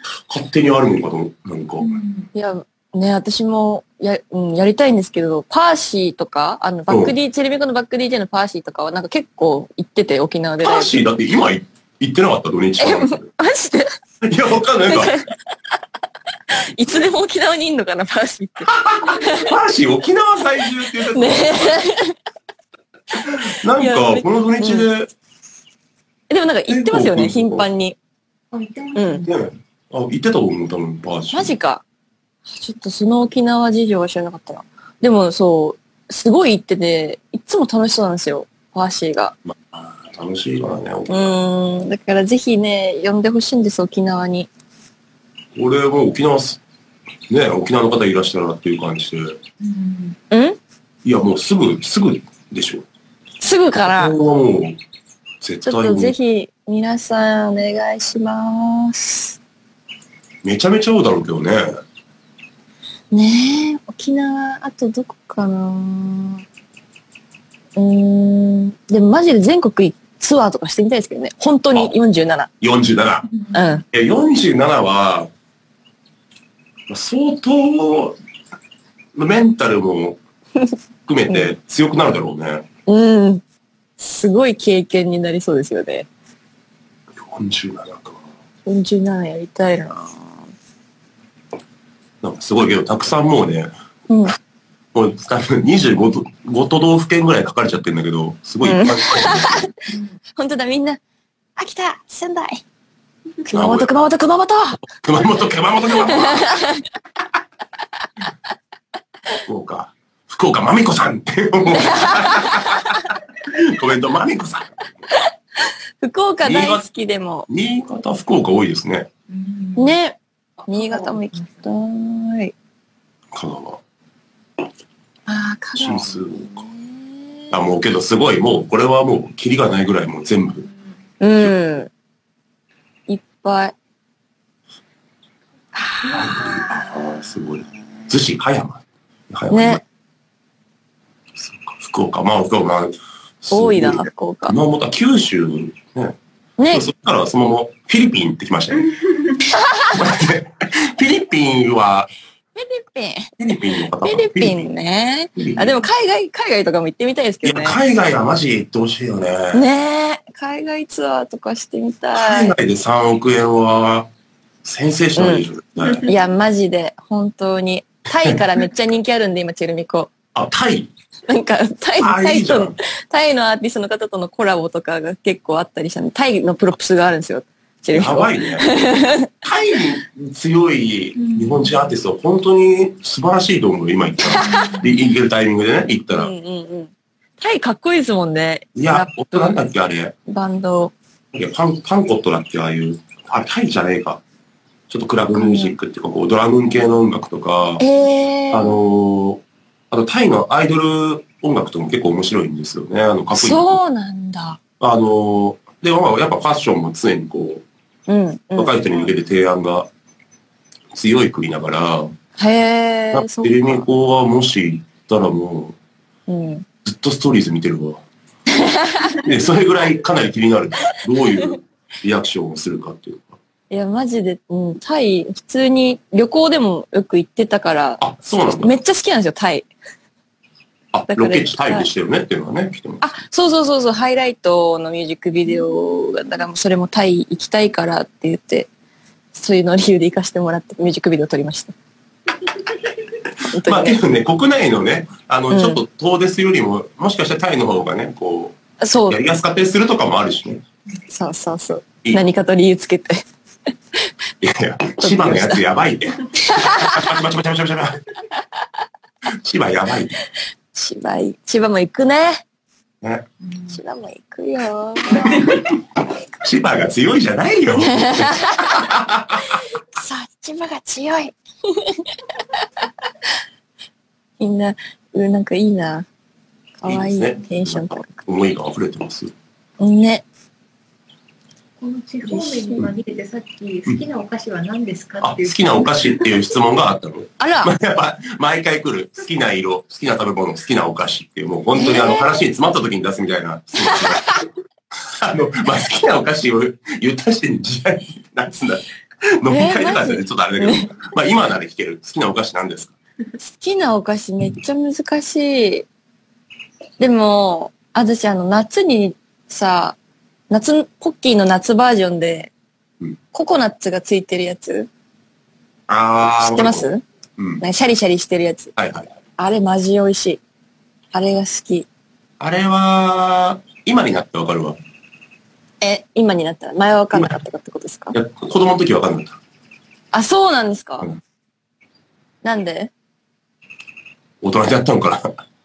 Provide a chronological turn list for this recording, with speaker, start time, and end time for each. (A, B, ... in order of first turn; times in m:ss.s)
0:00.3-0:02.0 A
0:01.8-0:02.3 B
0:02.3-0:11.0 C
0:06.9-0:07.1 A
0:10.6-0:13.2 A
0:12.8-0:13.9 C
0:14.2-0:15.2 A
0:14.9-0:15.3 C
0:16.5-0:19.5 C
0:18.7-0:21.8 A
0:21.1-0:22.2 C
0:23.1-0:25.1 A
0:23.8-0:24.9 C
0:26.3-0:28.0 C
0:26.7-0:27.6 A
0:28.5-0:29.4 B
0:29.0-0:29.2 C
0:29.2-0:31.6 A
0:31.3-0:31.8 C
0:32.5-0:39.4 C
0:39.5-0:41.4 A
0:41.1-0:44.5 C
0:45.6-0:46.6 A
0:47.3-0:49.4 A
0:49.6-0:50.2 B
0:50.3-0:50.6 C
0:51.0-0:52.9 A
0:53.4-0:54.2 C
0:53.8-0:54.8 A
0:55.4-0:56.1 A
0:55.6-0:59.4 C
1:00.4-1:01.8 A
1:03.1-1:06.4 C
1:07.8-1:12.5 C
1:12.6-1:13.3 A
1:13.5-1:13.8 C
1:13.9-1:15.3 A
1:16.9-1:18.2 A
1:19.1-1:20.2 A
1:21.1-1:22.6 A
1:22.9-1:23.4 C
1:24.0-1:26.1 C
1:27.1-1:28.2 A
1:28.6-1:30.3 C
1:32.2-1:33.7 A
1:34.1-1:34.4 C
1:34.9-1:39.7 A
1:38.6-1:39.8 C
1:40.4-1:41.0 C
1:41.6-1:42.6 C
1:43.4-1:44.8 C
1:43.5-1:44.0 A
1:44.9-1:46.7 A
1:46.1-1:46.8 C
1:49.4-1:54.9 A
1:51.7-1:52.9 C
1:56.0-1:57.5 C
1:56.4-1:56.8 A
1:57.5-1:59.1 A
1:59.3-2:00.0 B
1:59.8-2:02.5 C
2:00.6-2:01.6 B
2:03.3-2:03.8 A
2:05.3-2:07.1 C
2:05.8-2:06.6 A
2:07.5-2:10.6 A
2:11.2-2:11.9 C
2:13.1-2:13.8 C
2:15.8-2:17.0 C
2:16.1-2:19.8 A
2:19.5-2:19.8 C
2:21.4-2:26.2 A
2:23.5-2:24.6 C
2:26.6-2:26.9 C
2:26.7-2:28.9 A
2:29.5-2:30.0 C
2:29.9-2:32.1 A
2:32.6-2:33.3 C
2:33.4-2:34.7 A
2:34.0-2:37.8 C
2:35.4-2:35.8 A
2:37.4-2:39.6 A
2:39.5-2:42.5 C
2:42.1-2:44.1 A
2:44.6-2:46.1 A
2:45.2-2:45.4 C
2:46.0-2:50.1 C
2:50.3-2:50.9 A
2:51.3-2:59.3 C
2:52.0-2:52.8 A
2:57.9-2:58.7 A
2:59.4-3:06.3 A
3:01.2-3:02.0 B
3:04.2-3:04.8 C
3:04.4-3:05.0 B
3:06.1-3:09.6 C
3:08.8-3:10.1 A
3:10.3-3:10.9 C
3:11.3-3:14.2 A
3:14.9-3:17.8 A
3:15.3-3:15.8 C
3:17.8-3:18.8 C
3:18.5-3:23.8 A
3:23.4-3:24.6 C
3:24.8-3:27.6 A
3:28.1-3:28.8 C
3:28.6-3:29.9 A
3:30.9-3:32.1 A
3:32.4-3:33.8 C
3:33.1-3:35.8 A
3:36.3-3:36.6 C
3:36.8-3:38.0 A
3:38.5-3:39.2 C
3:39.1-3:43.4 A
3:43.7-3:49.7 C
3:48.0-3:48.8 A
3:50.9-3:53.0 A
3:51.1-3:51.9 C
3:53.0-3:58.7 C
3:59.3-4:01.8 C
4:03.4-4:04.0 C
4:03.6-4:08.6 A
4:05.5-4:05.8 C
4:08.8-4:09.2 C
4:09.1-4:10.6 A
4:11.1-4:13.2 C
4:14.4-4:18.0 A
4:15.0-4:15.6 C
4:16.4-4:17.2 C
4:19.3-4:20.1 A
4:20.7-4:22.4 C
4:23.4-4:23.8 B
4:23.7-4:25.6 C
4:26.4-4:29.6 A
4:27.8-4:28.9 C
4:29.5-4:32.2 C
4:34.4-4:36.1 C
4:36.8-4:38.2 C
4:36.9-4:39.3 A
4:39.8-4:40.2 C
4:41.8-4:46.4 B
4:42.3-4:42.9 C
4:45.2-4:54.3 A
4:47.4-4:47.7 C
4:51.8-4:52.4 C
4:53.8-4:54.4 C
4:55.1-4:58.8 A
4:59.4-5:02.9 A
4:59.5-5:01.0 C
5:03.4-5:05.9 C
5:07.0-5:10.0 C
5:10.5-5:12.5 C
5:13.3-5:14.9 C
5:15.9-5:17.6 A
5:16.4-5:17.0 C
5:17.6-5:18.7 C
5:18.8-5:19.1 A
5:19.4-5:20.4 C
5:21.1-5:21.9 C
5:22.4-5:24.8 A
5:25.8-5:28.2 C
5:27.1-5:27.4 A
5:28.1-5:29.4 A
5:30.1-5:31.1 C
5:32.4-5:32.9 C
5:34.4-5:35.3 A